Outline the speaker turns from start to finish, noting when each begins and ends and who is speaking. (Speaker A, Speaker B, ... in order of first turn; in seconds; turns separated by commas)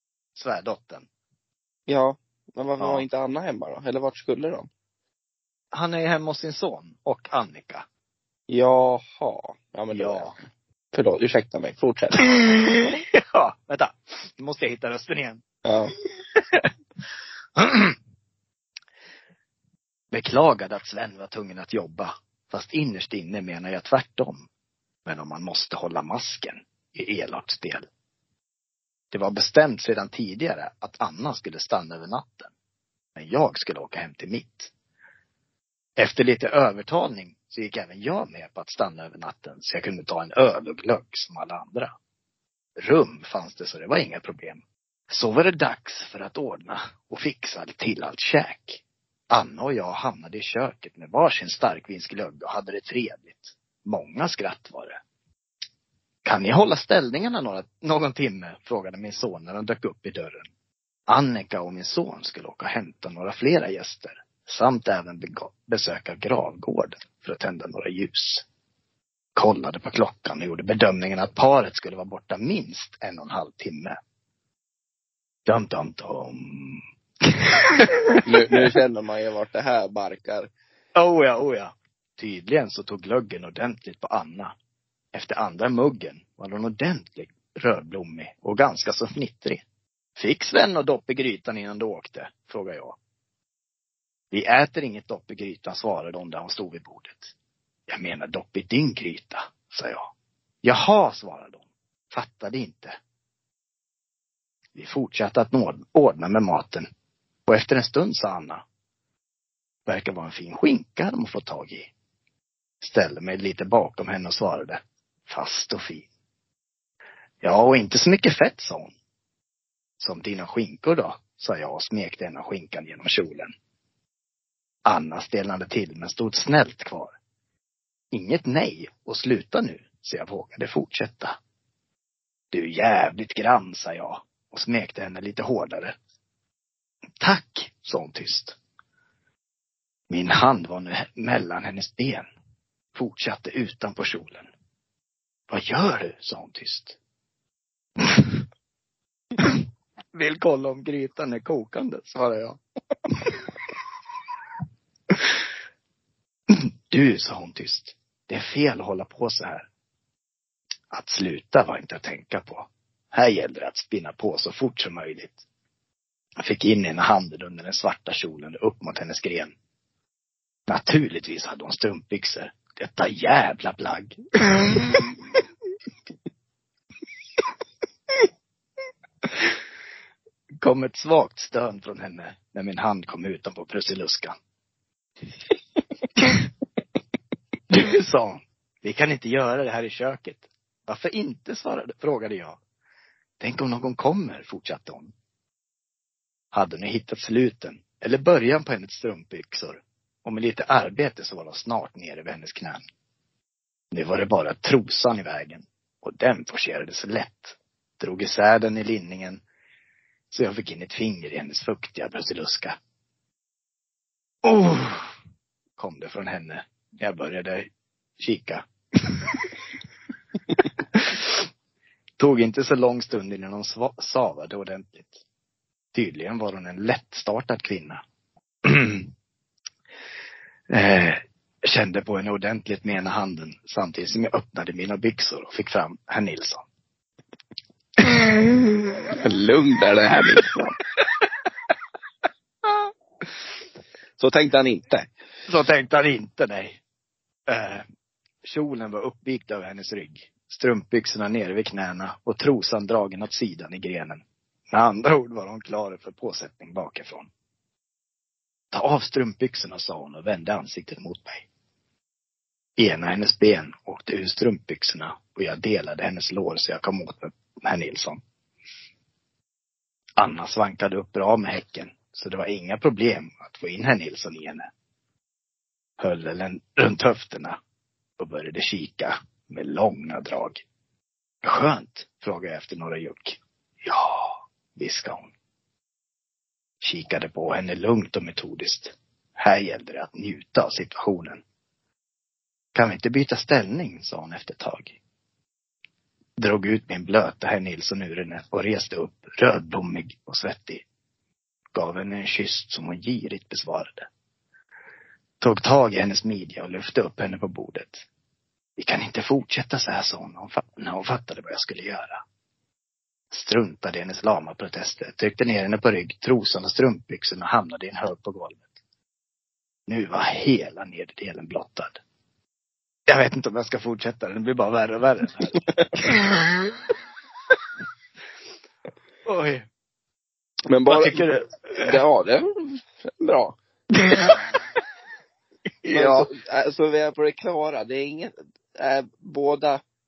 Speaker A: 0.3-1.1, Speaker B: 1.9-4.7, Speaker A: 2.8-3.0, Speaker A: 5.7-7.8, Speaker B: 8.5-10.4, Speaker A: 9.9-10.3, Speaker B: 10.9-12.3, Speaker A: 12.4-15.4, Speaker B: 15.6-15.9, Speaker A: 17.6-17.9, Speaker A: 20.1-24.4, Speaker A: 25.1-27.9, Speaker A: 29.1-32.5, Speaker A: 33.1-34.7, Speaker A: 36.0-41.9, Speaker A: 42.8-55.0, Speaker A: 56.2-60.5, Speaker A: 61.1-68.5, Speaker A: 69.3-74.0, Speaker A: 75.5-76.8, Speaker B: 78.2-80.5, Speaker A: 80.9-84.5, Speaker A: 85.1-89.6, Speaker A: 90.2-93.0, Speaker A: 94.3-97.3, Speaker A: 97.9-100.1, Speaker A: 100.6-102.9, Speaker A: 104.7-106.9, Speaker A: 107.5-108.6, Speaker A: 109.8-111.9, Speaker A: 112.8-116.1, Speaker A: 117.4-118.9, Speaker A: 120.0-123.5, Speaker A: 124.8-127.1, Speaker A: 128.1-131.4, Speaker A: 132.5-135.9, Speaker A: 137.2-138.6, Speaker A: 140.1-142.2, Speaker A: 142.9-144.5, Speaker A: 145.5-147.0, Speaker A: 148.0-148.3, Speaker A: 150.1-152.6, Speaker A: 156.5-159.7, Speaker A: 160.9-165.4, Speaker A: 166.4-169.5, Speaker A: 170.7-175.1, Speaker A: 180.6-184.3, Speaker A: 187.7-192.6, Speaker A: 193.4-195.1, Speaker A: 196.5-202.8, Speaker A: 203.9-209.4, Speaker A: 210.3-212.8, Speaker A: 214.4-215.1, Speaker A: 215.8-217.7, Speaker A: 218.2-219.5, Speaker A: 220.9-221.3, Speaker A: 222.2-225.2, Speaker A: 225.9-228.0, Speaker A: 228.6-229.1, Speaker A: 230.7-236.6, Speaker B: 239.1-240.7, Speaker B: 244.2-245.1, Speaker A: 245.5-246.8, Speaker A: 247.5-247.8, Speaker A: 248.4-257.3, Speaker A: 258.7-261.5, Speaker A: 262.8-268.2, Speaker A: 270.2-274.7, Speaker A: 276.0-277.6, Speaker A: 278.2-280.6, Speaker A: 281.4-285.3, Speaker A: 286.8-291.4, Speaker A: 292.7-295.0, Speaker A: 296.4-300.8, Speaker A: 301.7-304.1, Speaker A: 305.4-308.1, Speaker A: 308.8-312.2, Speaker A: 313.3-318.6, Speaker A: 319.9-322.0, Speaker A: 323.1-326.4, Speaker A: 329.2-329.6, Speaker B: 330.7-333.6, Speaker A: 330.8-332.0, Speaker A: 334.0-334.5, Speaker A: 335.8-336.3, Speaker B: 335.9-339.8